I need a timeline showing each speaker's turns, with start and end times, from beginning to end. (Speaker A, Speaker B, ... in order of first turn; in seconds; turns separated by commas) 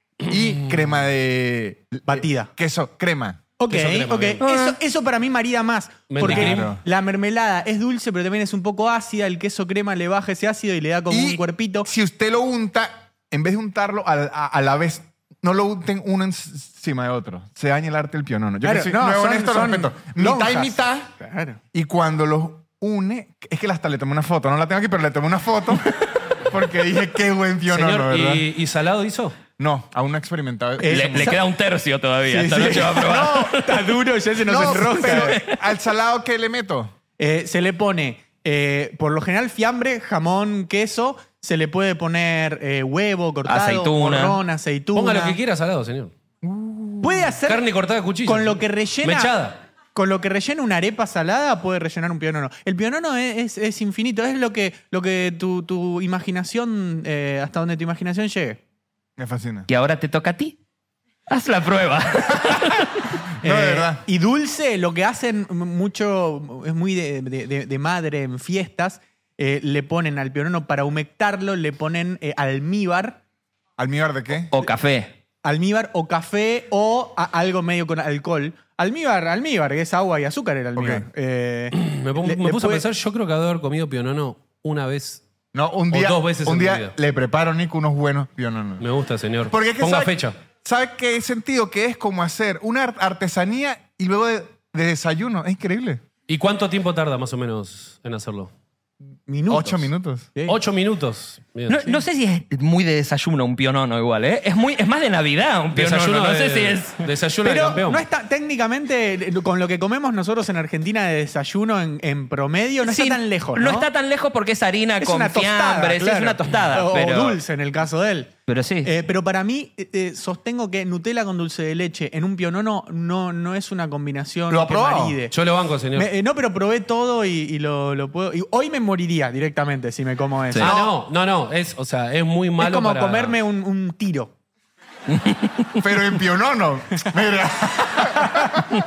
Speaker A: 0.3-3.4, Speaker B: 0.3-0.8, Speaker C: 2.1-2.5, Speaker C: 3.6-11.9, Speaker B: 3.7-4.4, Speaker D: 4.4-4.8, Speaker B: 6.1-6.8, Speaker A: 6.2-6.8, Speaker A: 11.1-21.1, Speaker C: 18.6-21.6, Speaker A: 21.7-28.5, Speaker B: 27.7-29.4, Speaker A: 29.6-31.4, Speaker C: 30.8-31.4, Speaker D: 30.9-33.9, Speaker C: 32.3-35.4, Speaker A: 33.0-33.6, Speaker A: 34.4-37.0, Speaker D: 34.7-35.7, Speaker C: 37.2-45.4, Speaker D: 43.5-44.4, Speaker B: 44.9-46.1, Speaker A: 46.4-47.3, Speaker C: 47.0-47.7, Speaker B: 47.5-49.6, Speaker C: 48.2-49.4, Speaker C: 49.9-58.6, Speaker A: 59.2-59.7, Speaker D: 59.7-60.6, Speaker D: 61.3-63.1, Speaker C: 63.4-73.2, Speaker A: 63.4-64.0, Speaker A: 73.8-74.5, Speaker D: 74.5-75.1, Speaker C: 75.4-82.8, Speaker A: 80.8-81.1, Speaker B: 81.7-85.2, Speaker A: 85.5-88.9, Speaker B: 85.9-86.9, Speaker B: 88.8-90.4, Speaker A: 89.5-96.0, Speaker B: 96.3-98.5, Speaker C: 99.3-100.6, Speaker A: 99.5-100.3, Speaker B: 100.5-101.8, Speaker D: 101.7-107.0, Speaker B: 105.8-108.0, Speaker C: 107.4-113.9, Speaker D: 112.8-117.4, Speaker C: 115.0-118.3, Speaker D: 118.5-118.9, Speaker C: 118.8-125.3, Speaker A: 124.5-125.2, Speaker B: 125.3-126.1, Speaker C: 125.9-130.8, Speaker B: 130.6-133.4, Speaker A: 130.7-130.9, Speaker C: 132.6-134.3, Speaker D: 135.1-135.8, Speaker A: 135.8-138.7, Speaker C: 138.2-138.5